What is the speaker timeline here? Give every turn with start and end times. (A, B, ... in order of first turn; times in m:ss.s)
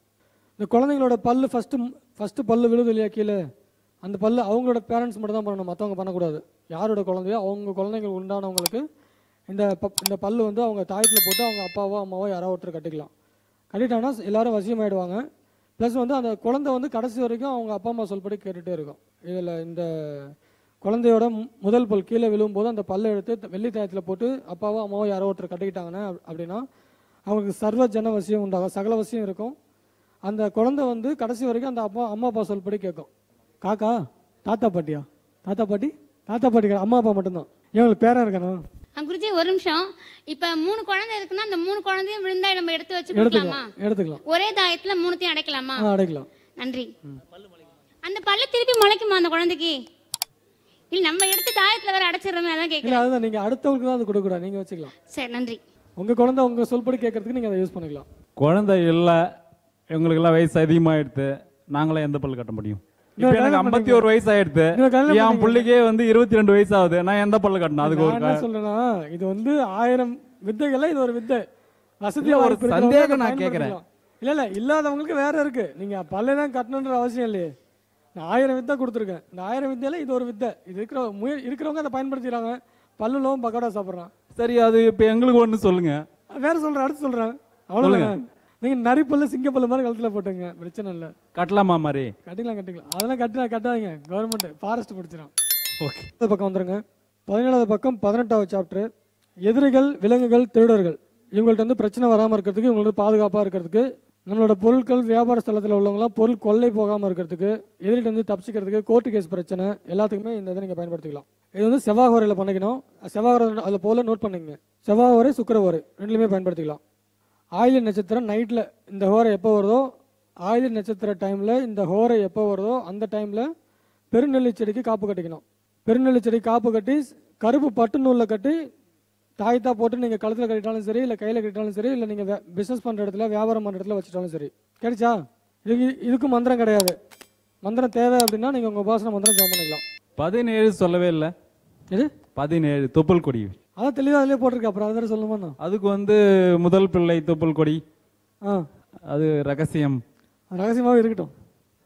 0:00.6-0:03.4 A
0:04.0-0:08.8 A
0:09.5-0:13.1 A
0:13.7-0:15.2 A
0:15.8-0:26.6 A
0:27.3-0:29.5 A
0:30.3-0:33.1 A
0:33.6-0:34.0 A
0:34.5-0:38.6 A
0:39.0-0:43.7 B
0:43.1-0:44.2 A
0:44.3-0:45.8 B
0:45.8-0:46.3 A
0:46.6-0:46.9 B
0:48.1-0:49.8 B
0:50.9-0:53.1 B
0:52.8-0:54.9 A
0:55.1-0:55.6 B
0:56.0-0:58.1 A
0:58.4-0:59.2 C
0:59.9-1:08.4 C
1:03.2-1:04.1 A
1:04.7-1:05.7 A
1:07.8-1:11.4 A
1:12.0-1:17.5 A
1:12.2-1:13.8 C
1:18.2-1:24.1 A
1:24.4-1:26.0 C
1:26.4-1:31.1 A
1:27.8-1:28.1 C
1:31.4-1:32.1 C
1:32.2-1:35.3 A
1:35.8-1:36.1 C
1:36.2-1:38.9 A
1:39.4-1:56.8 A
1:57.6-1:59.8 A
2:00.5-2:03.5 A
2:04.1-2:08.6 A
2:09.4-2:15.2 A
2:15.7-2:17.0 A
2:17.6-2:19.8 A
2:20.2-2:21.3 C
2:22.4-2:23.6 C
2:23.8-2:25.6 A
2:25.6-2:27.8 C
2:29.1-2:30.0 C
2:30.5-2:31.3 A